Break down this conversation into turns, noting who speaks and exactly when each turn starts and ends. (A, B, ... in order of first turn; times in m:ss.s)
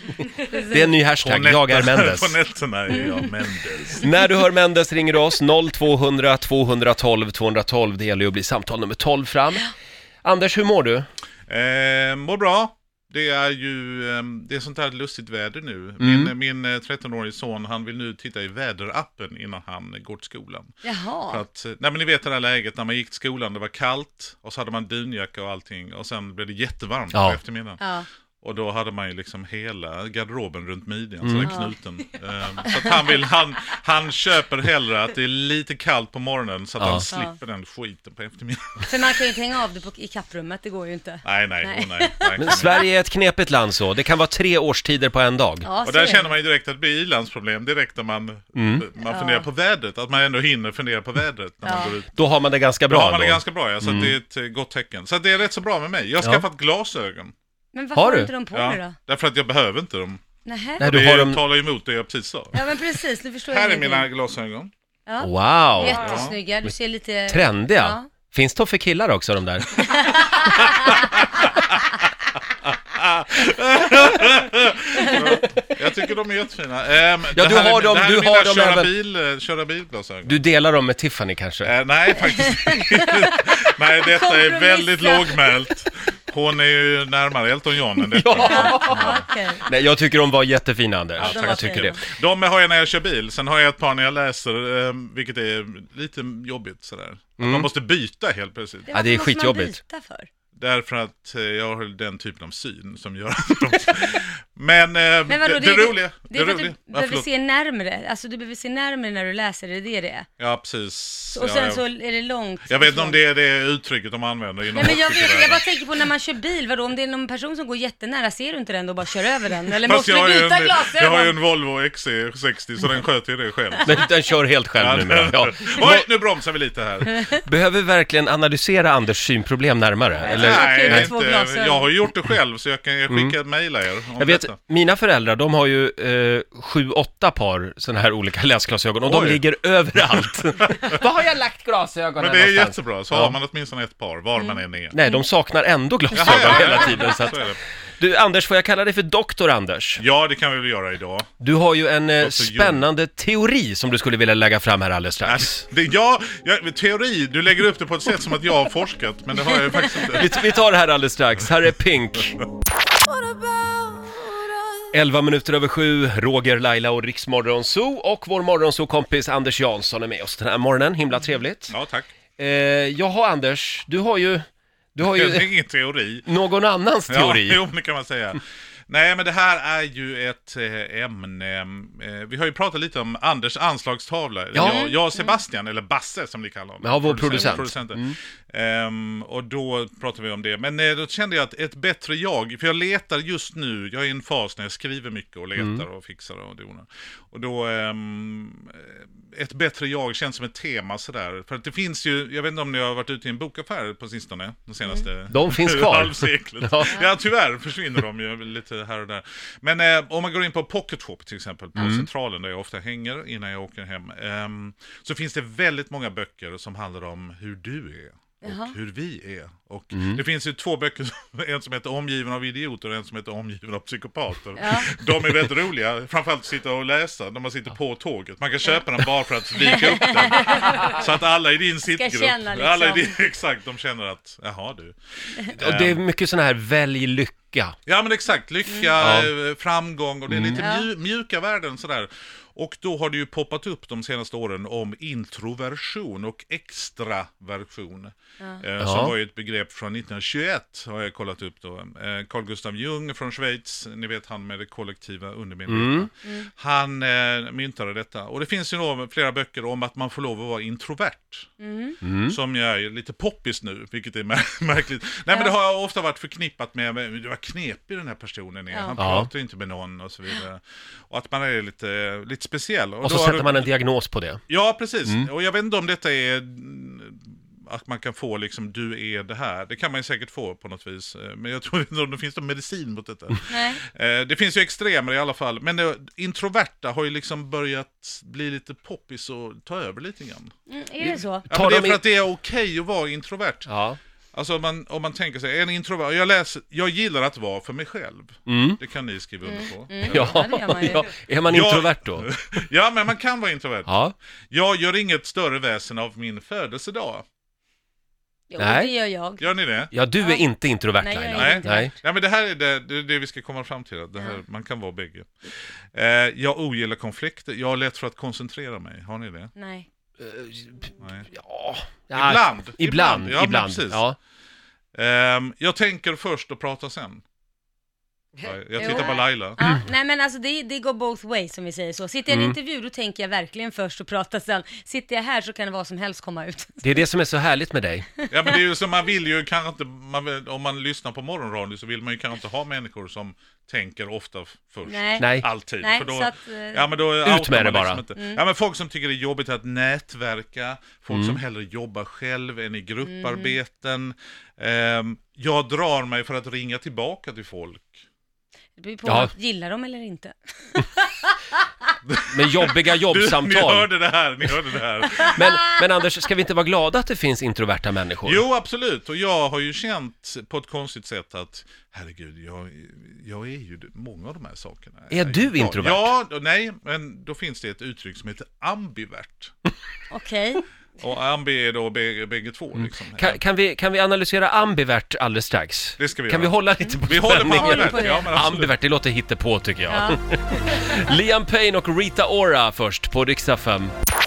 0:00.3-0:00.9 A
0:00.4-0:02.3 B
0:01.2-0:04.2 C
0:02.9-0:03.3 A
0:04.0-0:09.7 B
0:10.2-0:11.0 B
0:11.5-0:20.7 C
0:16.0-0:16.3 B
0:20.8-0:21.4 A
0:21.3-0:27.8 C
0:27.1-0:27.4 B
0:27.8-0:28.1 A
0:28.4-0:39.2 C
0:31.2-0:31.6 B
0:31.4-0:31.7 A
0:32.6-0:33.0 A
0:36.8-0:37.0 B
0:37.1-0:37.4 A
0:38.8-0:42.7 A
0:41.2-0:42.8 C
0:42.4-0:45.7 B
0:45.6-0:46.3 A
0:45.8-0:52.1 C
0:48.5-0:48.8 B
0:49.0-0:49.5 A
0:51.6-0:52.0 A
0:52.1-0:54.1 B
0:52.9-0:57.3 C
0:57.7-0:59.0 A
0:57.9-0:58.3 B
0:58.5-1:00.2 C
1:00.4-1:00.8 A
1:00.8-1:01.4 B
1:00.8-1:02.6 C
1:02.5-1:04.1 A
1:03.5-1:04.7 C
1:05.1-1:08.1 A
1:05.2-1:06.0 B
1:05.8-1:06.4 C
1:07.3-1:10.2 B
1:09.8-1:11.1 A
1:12.6-1:20.4 C
1:15.0-1:15.4 A
1:17.3-1:18.9 B
1:20.2-1:21.7 B
1:21.6-1:29.3 C
1:22.3-1:23.4 A
1:24.0-1:25.6 A
1:28.1-1:32.0 B
1:28.3-1:29.7 A
1:31.2-1:38.9 C
1:31.2-1:32.0 A
1:37.4-1:37.7 B
1:38.9-1:40.3 A
1:38.9-1:39.8 B
1:40.6-1:47.3 C
1:45.3-1:50.3 A
1:50.4-1:51.8 C
1:51.3-1:53.2 A
1:52.7-1:55.6 C
1:54.7-2:01.3 A
1:59.8-2:04.0 C
2:03.8-2:06.1 B
2:04.8-2:07.2 C
2:07.3-2:11.1 B
2:10.2-2:14.6 C
2:10.2-2:11.9 A
2:13.1-2:13.4 B
2:14.2-2:23.4 B
2:19.0-2:19.4 C
2:20.2-2:21.0 C
2:22.2-2:25.0 C
2:24.4-2:25.2 A
2:24.9-2:27.4 B
2:26.1-2:27.6 C
2:26.2-2:27.0 A
2:28.0-2:30.0 B
2:30.0-2:31.3 C
2:31.4-2:35.6 B
2:32.2-2:32.8 C
2:35.2-2:40.5 C
2:40.1-2:42.4 B
2:43.1-2:44.1 A
2:44.9-2:51.7 B
2:51.7-2:52.1 C
2:52.4-2:55.5 B
2:55.0-2:56.3 C
2:56.2-2:57.6 B
2:57.1-3:56.0 C
3:04.5-3:04.8 B
3:04.6-3:05.4 A
3:06.8-3:08.2 B
3:07.3-3:07.6 A
3:15.6-3:15.8 B
3:25.3-3:27.0 B
3:31.8-3:32.1 B
3:38.4-3:38.7 A
3:39.9-3:40.2 B
3:44.6-3:44.9 A
3:49.7-3:51.0 A
3:51.9-3:53.1 A
3:55.6-3:57.8 B
3:57.8-4:21.5 C
3:59.0-3:59.3 B
4:00.3-4:00.6 B
4:00.6-4:00.9 A
4:08.8-4:09.1 B
4:15.7-4:16.1 B
4:16.2-4:16.5 A
4:21.6-4:22.0 A
4:22.0-4:22.4 B
4:22.3-4:33.7 C
4:28.7-4:29.0 A
4:29.0-4:29.3 B
4:33.0-4:34.4 B
4:34.5-4:50.5 C
4:43.5-4:43.8 A
4:50.7-4:51.5 A
4:51.5-4:53.7 C
4:51.5-4:52.0 B
4:53.7-4:54.0 B
4:54.3-5:01.0 C
4:58.4-4:58.8 B
4:59.4-5:01.0 A
5:00.0-5:02.3 B
5:01.5-5:04.0 C
5:03.8-5:04.1 B
5:04.5-5:07.2 C
5:08.5-5:09.5 A
5:08.6-5:08.9 B
5:09.4-5:09.9 C
5:09.9-5:11.9 B
5:11.0-5:11.9 A
5:11.3-5:15.3 C
5:15.9-5:19.5 C
5:19.6-5:19.9 A
5:20.2-5:24.2 B
5:21.0-5:21.3 C
5:22.1-5:24.0 C
5:24.9-5:27.2 C
5:28.4-5:29.6 C
5:28.8-5:37.0 A
5:32.3-5:32.6 B
5:36.8-5:38.0 B
5:38.3-5:58.0 C
5:44.9-5:45.2 A
5:45.2-5:45.4 B
5:45.8-5:46.9 A
5:47.2-5:48.0 B
5:48.1-5:48.4 A
5:51.1-5:51.4 B
5:53.0-5:53.6 A
5:58.8-6:01.3 A
5:59.0-5:59.3 B
6:02.0-6:05.6 C
6:02.3-6:03.9 B
6:05.3-6:08.4 B
6:08.2-6:19.5 C
6:15.1-6:16.1 B
6:20.1-6:20.6 A
6:21.0-6:23.4 C
6:22.7-6:33.9 B
6:26.0-6:26.5 C
6:26.8-6:28.3 A
6:27.0-6:28.8 C
6:29.9-6:30.2 A